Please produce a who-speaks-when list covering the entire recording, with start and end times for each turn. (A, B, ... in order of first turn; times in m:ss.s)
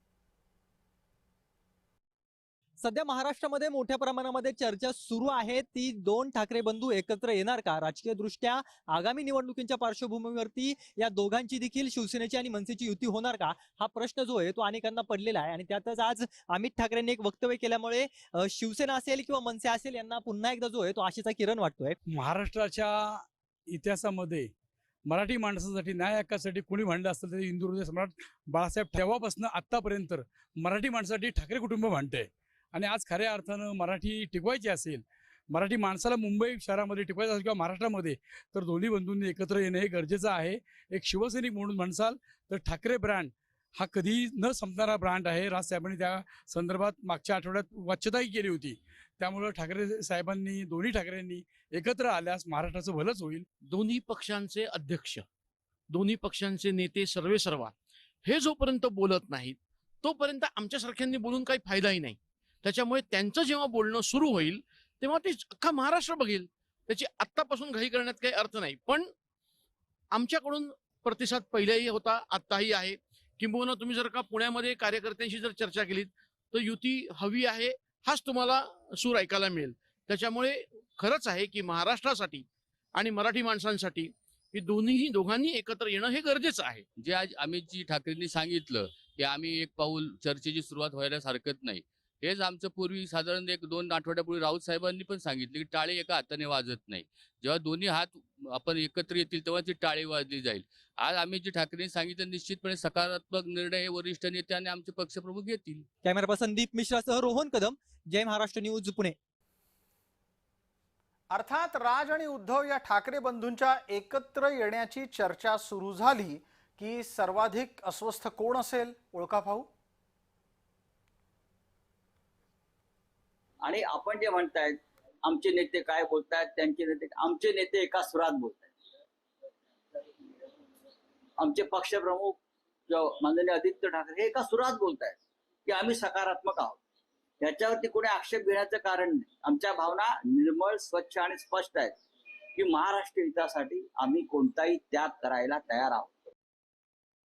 0:02.8-0:22.0 A
0:22.1-0:24.5 B
0:25.1-0:53.5 B
0:53.7-0:55.2 C
0:55.9-0:57.7 C
0:58.3-1:09.1 C
1:10.1-1:22.4 C
1:23.0-1:26.8 C
1:27.0-1:45.9 D
1:46.0-1:49.2 A
1:51.3-1:59.7 E
2:03.6-2:08.7 F
2:11.4-2:16.8 F
2:17.4-2:22.0 F
2:22.6-2:26.1 F